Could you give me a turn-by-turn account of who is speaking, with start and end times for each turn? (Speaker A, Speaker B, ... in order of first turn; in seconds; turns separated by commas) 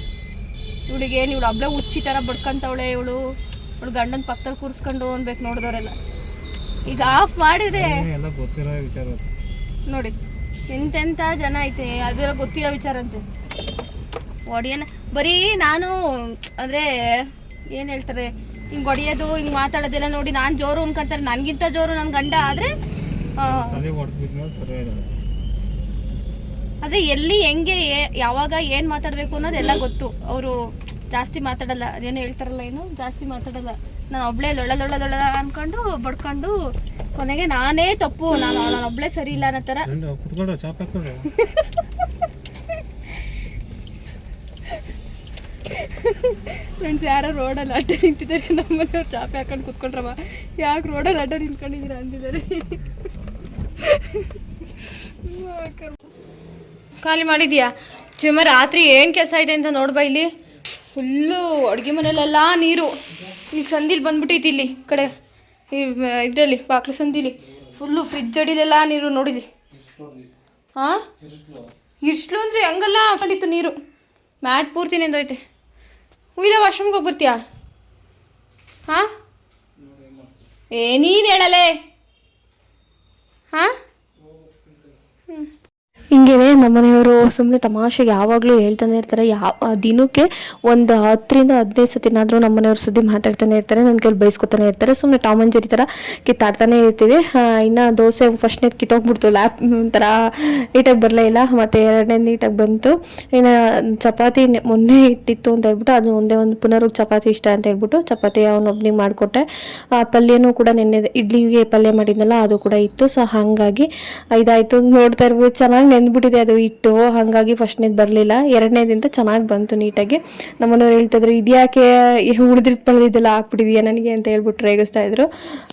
Speaker A: 0.9-3.2, Speaker A: 3.8-6.0, Speaker A: 6.8-8.0, Speaker B: 6.8-9.2, Speaker A: 9.9-10.1, Speaker A: 10.7-13.2, Speaker A: 14.4-16.9, Speaker A: 17.7-22.7, Speaker A: 23.4-23.8, Speaker B: 23.4-25.1, Speaker A: 26.8-36.5, Speaker A: 37.1-39.9, Speaker B: 39.3-41.3, Speaker A: 41.4-41.7, Speaker A: 45.7-52.8, Speaker B: 52.9-53.6, Speaker A: 53.8-54.3, Speaker A: 55.2-56.0, Speaker A: 57.0-60.3, Speaker A: 60.9-62.9, Speaker A: 63.5-65.1, Speaker A: 65.7-69.5, Speaker B: 69.7-70.3, Speaker A: 70.8-71.0, Speaker B: 71.2-71.7, Speaker A: 72.0-73.7, Speaker A: 74.4-75.4, Speaker A: 76.4-77.4, Speaker B: 79.8-80.5, Speaker A: 80.7-81.7, Speaker B: 84.2-85.0, Speaker C: 86.1-103.5, Speaker C: 104.0-109.4, Speaker C: 110.0-125.3